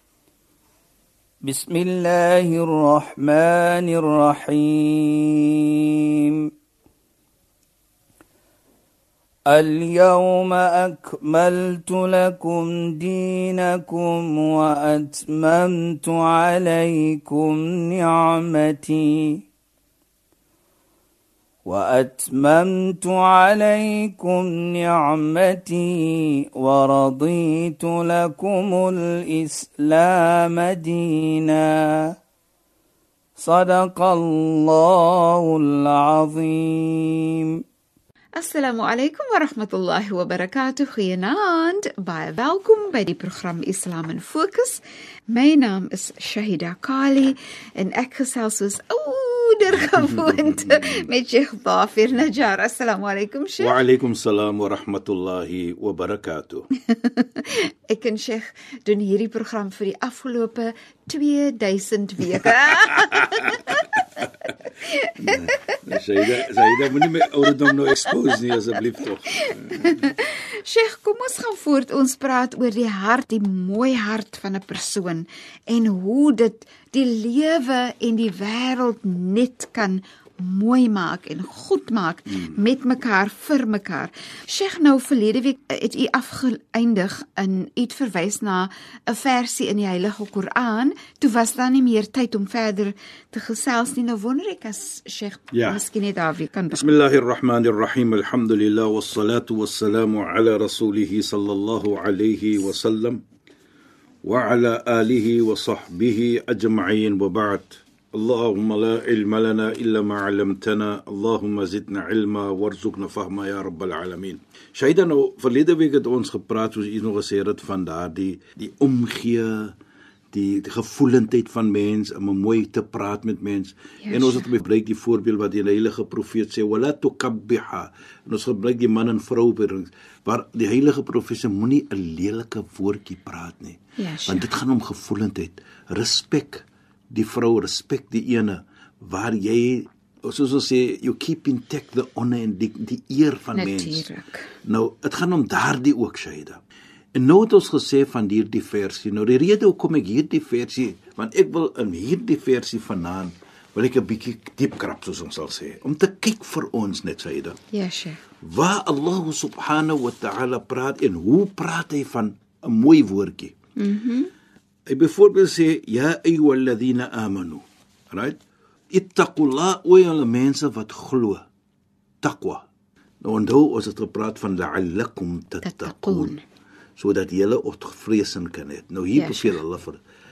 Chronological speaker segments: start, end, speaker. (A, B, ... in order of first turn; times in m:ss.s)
0:01.4-0:06.5 A
0:09.5-0:19.4 A
0:21.7-0:32.1 A
0:33.4-0:37.6 A
0:38.4-0:53.8 B
0:53.6-0:56.7 C
0:56.9-1:04.0 B
1:02.4-1:04.2 C
1:04.8-1:05.8 B
1:05.2-1:10.0 C
1:06.4-1:08.4 B
1:09.3-1:37.0 B
1:35.5-1:35.8 C
1:36.7-1:43.2 C
1:44.2-1:59.8 C
2:00.3-2:24.1 C
2:04.0-2:04.4 B
2:14.0-2:14.5 B
2:23.5-2:24.5 B
2:24.6-2:26.6 C
2:27.2-2:37.6 C
2:37.7-2:38.2 B
2:38.4-2:43.5 C
2:43.8-2:44.3 B
2:44.9-2:48.4 C
2:48.9-2:51.5 C
2:52.2-2:52.6 C
2:53.2-2:56.4 C
2:55.6-2:56.4 B
2:57.0-3:00.0 C
2:59.2-2:59.6 B